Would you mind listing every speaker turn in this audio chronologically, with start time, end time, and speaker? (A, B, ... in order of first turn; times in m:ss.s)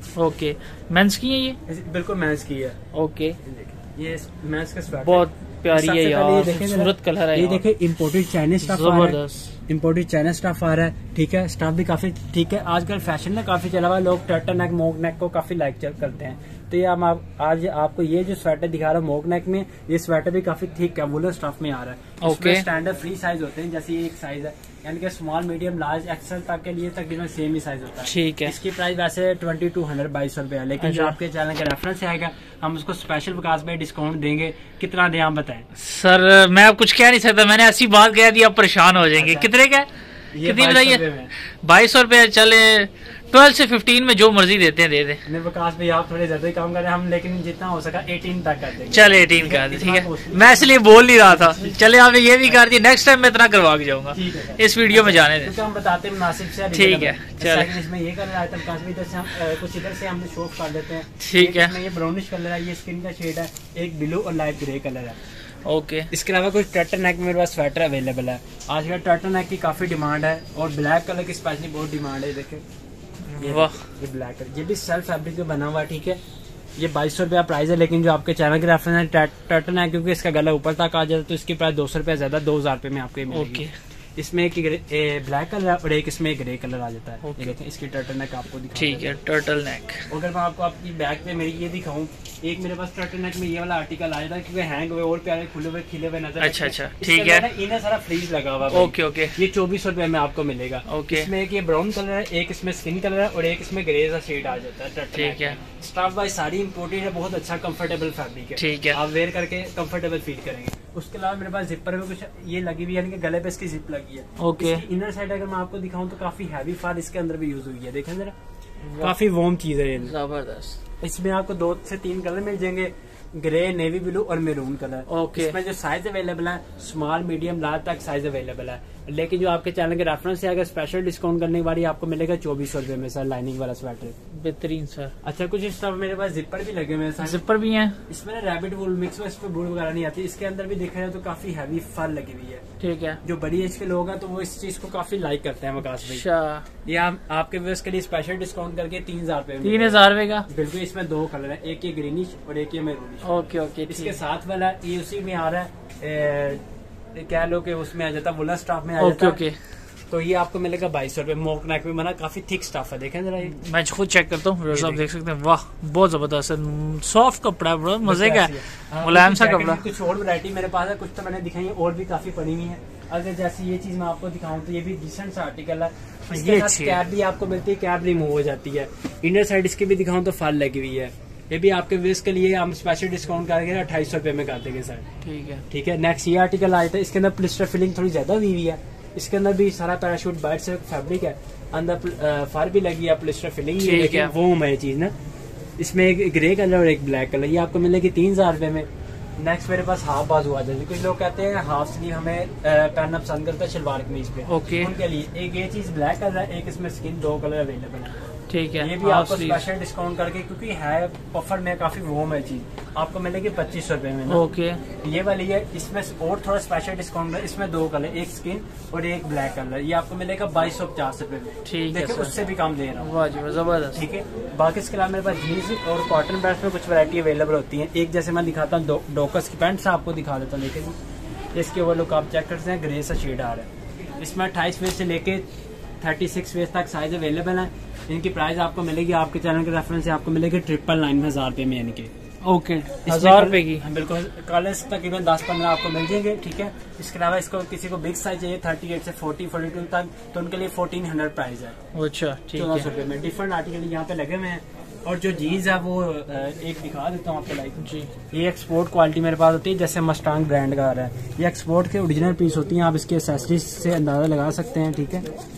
0:00.2-0:01.6 A
0:01.7-0:02.8 B
0:02.9-0:03.4 A
0:03.4-0:35.7 B
0:05.0-0:07.6 A
0:08.6-0:09.5 A
0:22.2-0:22.6 A
0:28.0-0:28.5 A
0:30.8-0:31.2 A
0:35.8-0:39.9 A
0:39.2-0:39.5 B
0:40.3-0:41.3 B
0:40.4-0:45.2 A
0:45.2-0:51.8 B
0:48.9-0:55.5 A
0:54.1-1:05.2 B
0:56.7-0:57.8 A
1:01.2-1:01.8 A
1:05.6-1:06.1 A
1:06.1-1:12.6 B
1:13.3-1:13.8 A
1:13.4-1:16.2 B
1:16.8-1:23.6 B
1:23.3-1:23.7 A
1:24.2-1:29.2 B
1:27.2-1:27.6 A
1:28.8-1:30.1 A
1:30.1-1:58.3 B
1:36.4-1:37.5 A
1:38.7-1:39.4 A
1:40.9-1:41.3 A
1:45.1-1:45.6 A
1:48.6-1:49.0 A
1:54.4-1:54.8 A
1:58.8-1:59.2 A
1:59.0-2:00.1 B
2:00.0-2:00.8 A
2:01.0-2:14.2 B
2:05.1-2:05.6 A
2:14.4-2:15.2 A
2:15.2-2:17.4 B
2:17.2-2:18.0 A
2:18.1-2:22.6 B
2:22.8-2:23.2 A
2:23.2-2:26.2 B
2:26.0-2:26.6 A
2:26.8-2:36.6 B
2:29.6-2:30.5 A
2:33.2-2:34.2 A
2:37.1-2:39.4 B
2:39.0-2:39.6 A
2:40.1-2:43.6 B
2:43.4-2:49.8 A
2:44.7-2:45.0 B
2:48.0-3:05.1 B
2:56.3-2:57.0 A
3:05.2-3:05.6 A
3:05.7-3:15.1 B
3:13.8-3:14.3 A
3:15.8-3:18.9 B
3:19.4-3:28.2 B
3:24.5-3:24.9 A
3:28.5-3:29.6 A
3:28.8-3:34.4 B
3:34.3-3:34.8 A
3:35.0-3:43.1 B
3:41.6-3:42.4 A
3:43.0-3:44.0 A
3:43.9-3:51.0 B
3:51.5-3:55.4 B
3:56.0-4:02.1 B
4:02.4-4:03.8 A
4:03.0-4:11.8 B
4:11.9-4:12.9 A
4:12.6-4:25.2 B
4:17.8-4:18.1 A